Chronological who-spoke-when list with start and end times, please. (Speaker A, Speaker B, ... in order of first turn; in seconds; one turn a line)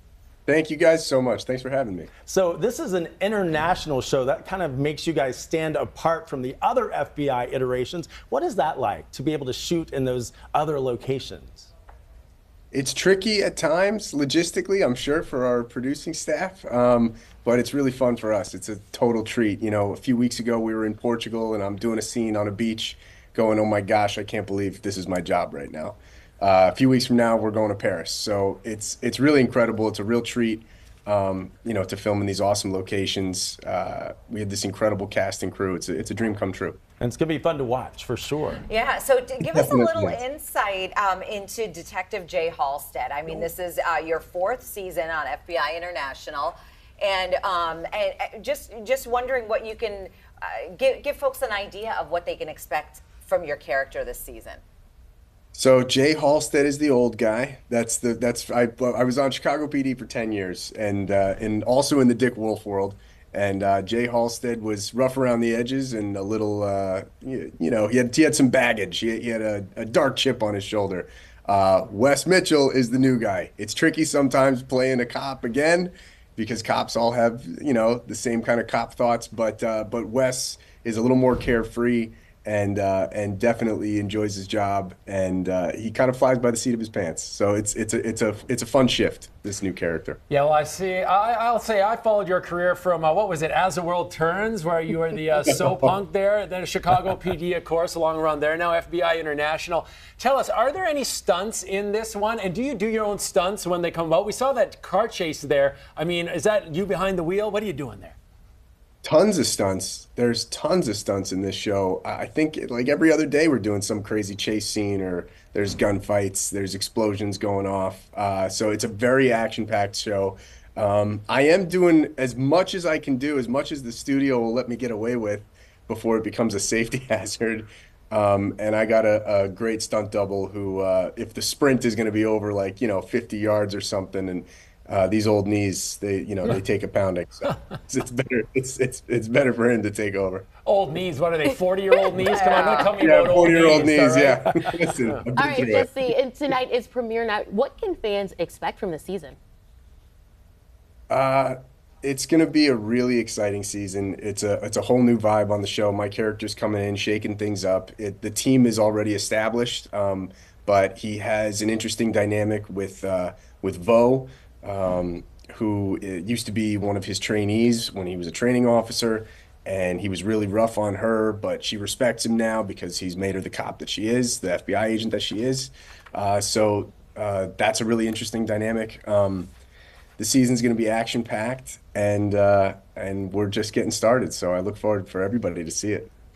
Speaker A: 0.5-2.1
Speaker B: 2.3-11.7
Speaker A: 12.7-36.8
Speaker B: 37.0-38.6
Speaker C: 38.7-54.6
Speaker A: 39.5-40.2
Speaker A: 55.5-90.2
Speaker D: 90.3-108.2
Speaker A: 109.0-140.5
Speaker D: 140.6-145.2
Speaker C: 142.4-142.9
Speaker A: 143.0-145.9
Speaker E: 145.3-149.4
Speaker A: 151.1-179.5
Speaker A: 180.2-186.1